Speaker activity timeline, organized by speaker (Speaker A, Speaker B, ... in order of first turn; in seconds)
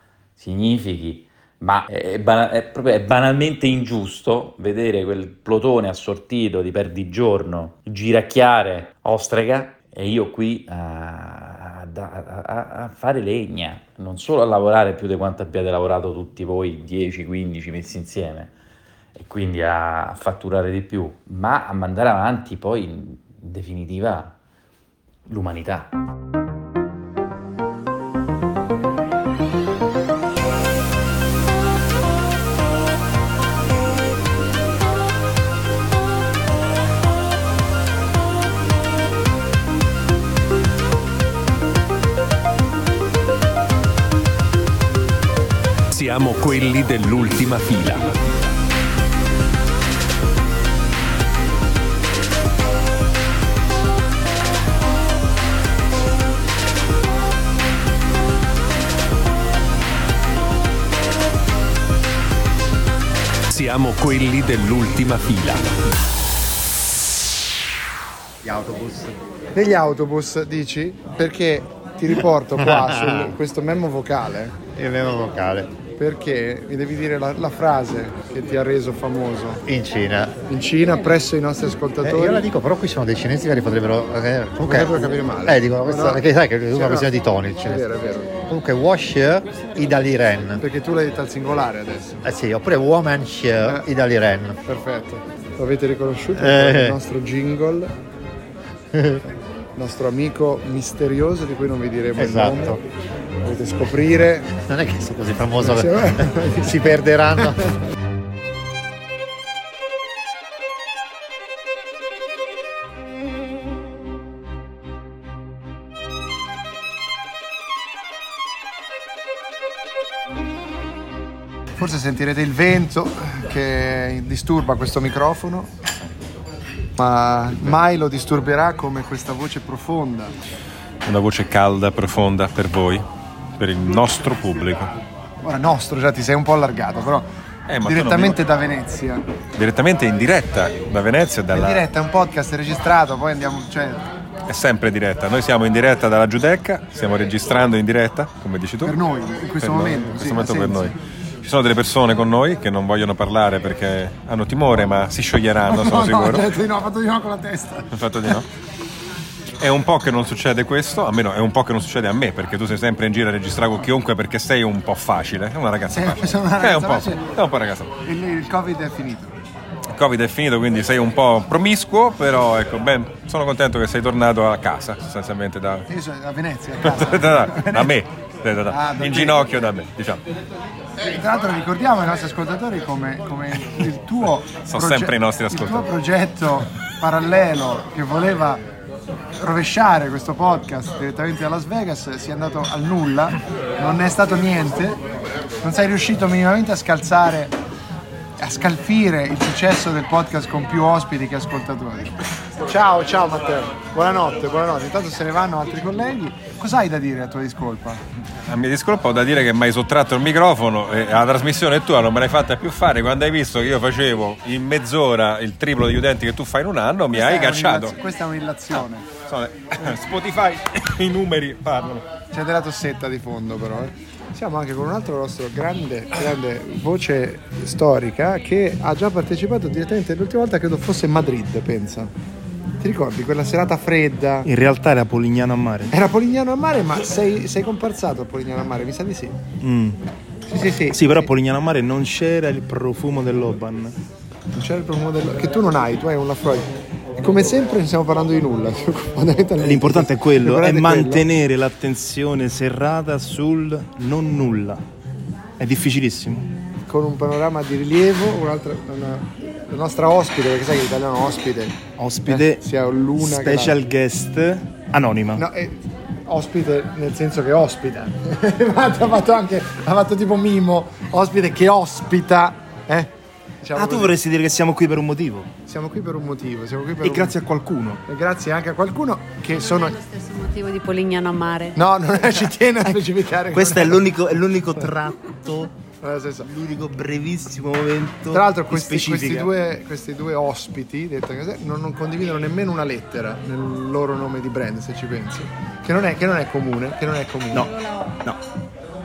Speaker A: 0.4-18.5, 19.1-24.3, 25.3-25.9
Speaker B: 45.9-48.5, 63.5-66.1
Speaker C: 68.4-69.1, 72.5-73.3, 74.8-75.7, 79.6-80.4, 82.0-87.8, 88.5-90.6, 92.2-94.6, 96.3-97.0, 98.9-99.2, 102.2-102.8, 104.5-107.7
Speaker D: 69.5-74.6, 76.0-79.6, 80.4-82.5, 84.6-88.3, 90.6-92.2, 94.6-97.9, 99.8-102.8, 103.4-104.5, 105.6-107.0, 121.8-125.7, 127.0-130.3, 135.4-137.3, 137.8-139.2, 141.5-144.1, 148.8-150.9, 155.7-158.3, 165.9-167.2, 168.0-169.4, 175.9-177.9, 178.7-179.5, 181.0-188.6, 189.4-195.0, 195.6-197.5, 198.4-208.0, 217.1-219.1, 222.3-232.1, 232.8-234.5, 235.9-239.4, 240.4-241.3, 244.5-251.3, 256.9-263.8, 265.3-274.2, 275.6-277.4, 278.1-279.9, 281.7-284.1, 286.0-286.5, 288.3-297.7
Speaker E: 131.0-133.0, 133.6-134.9, 137.7-138.4, 139.6-141.8, 144.5-148.9, 149.6-156.5, 157.9-158.5, 159.6-167.9, 169.9-175.9, 176.8-180.2, 184.7-185.9, 208.4-217.9, 219.3-222.0
Speaker F: 234.4-235.9, 239.6-240.0, 240.9-243.9, 249.6-254.8, 255.6-256.5, 262.0-262.6, 263.2-265.4, 273.7-275.5, 277.0-278.0, 283.5-285.7, 286.4-289.5, 297.5-298.4
Speaker G: 279.6-281.8